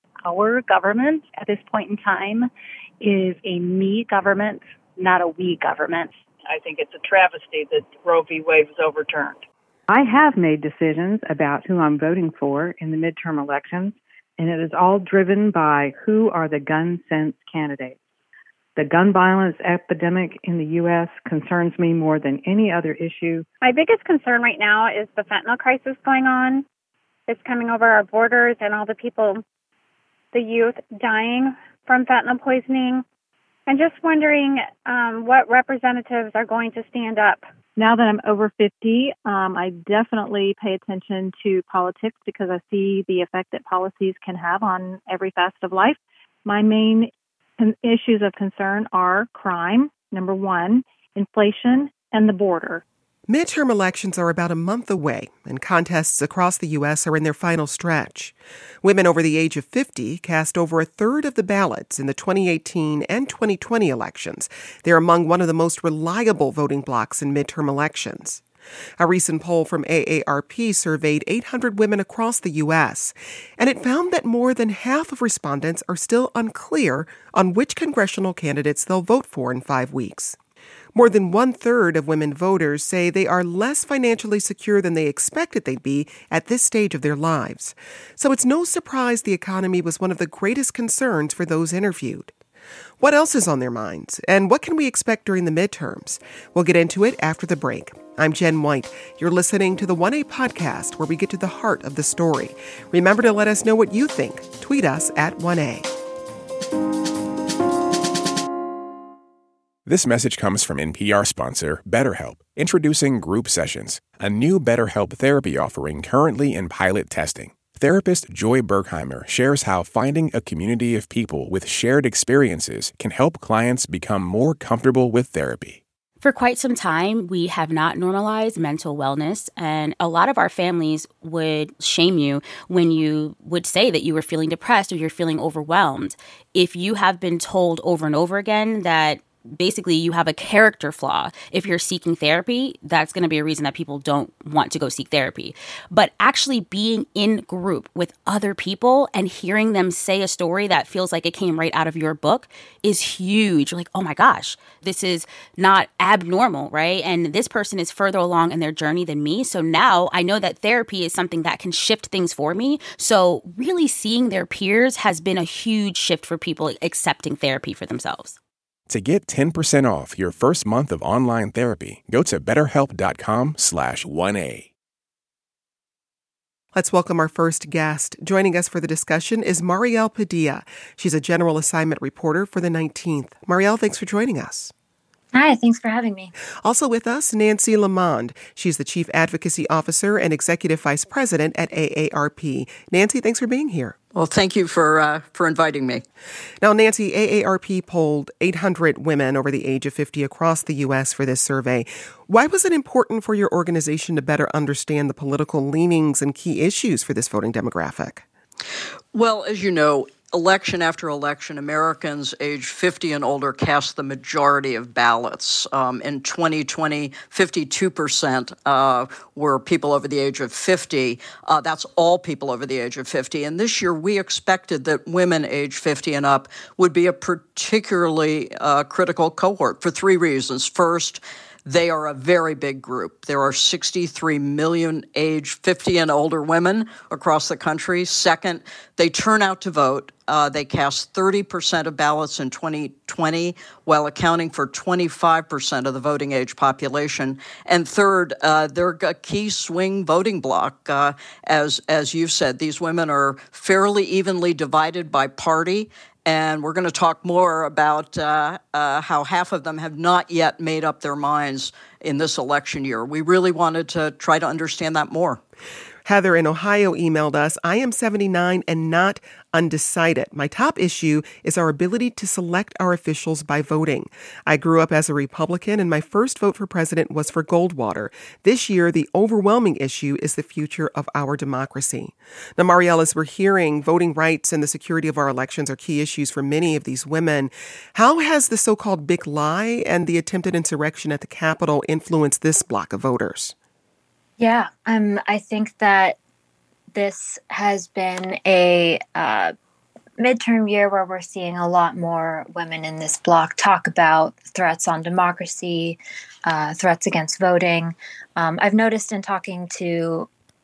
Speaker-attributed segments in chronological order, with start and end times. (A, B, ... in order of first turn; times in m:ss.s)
0:00.2-0:02.5 A
0:03.0-0:06.2 A
0:06.4-0:09.4 B
0:09.9-0:18.0 C
0:18.8-0:23.4 C
0:23.6-0:26.6 D
0:27.3-0:29.4 D
0:30.3-0:33.0 D
0:33.7-0:37.4 D
0:37.8-0:52.8 E
0:53.3-1:08.4 F
1:09.0-1:20.4 F
1:20.9-1:32.3 F
1:33.0-1:45.9 F
1:49.8-2:05.8 G
2:06.2-2:48.4 H
2:48.9-2:54.7 G
2:56.7-3:04.7 F
3:05.3-3:06.3 I
3:06.6-3:14.0 F
3:14.1-3:16.0 J
3:16.6-3:28.2 F
3:29.1-4:25.4 J
4:26.0-4:53.5 F
4:54.4-4:56.2 I
4:56.9-4:59.5 I
5:00.2-5:10.3 I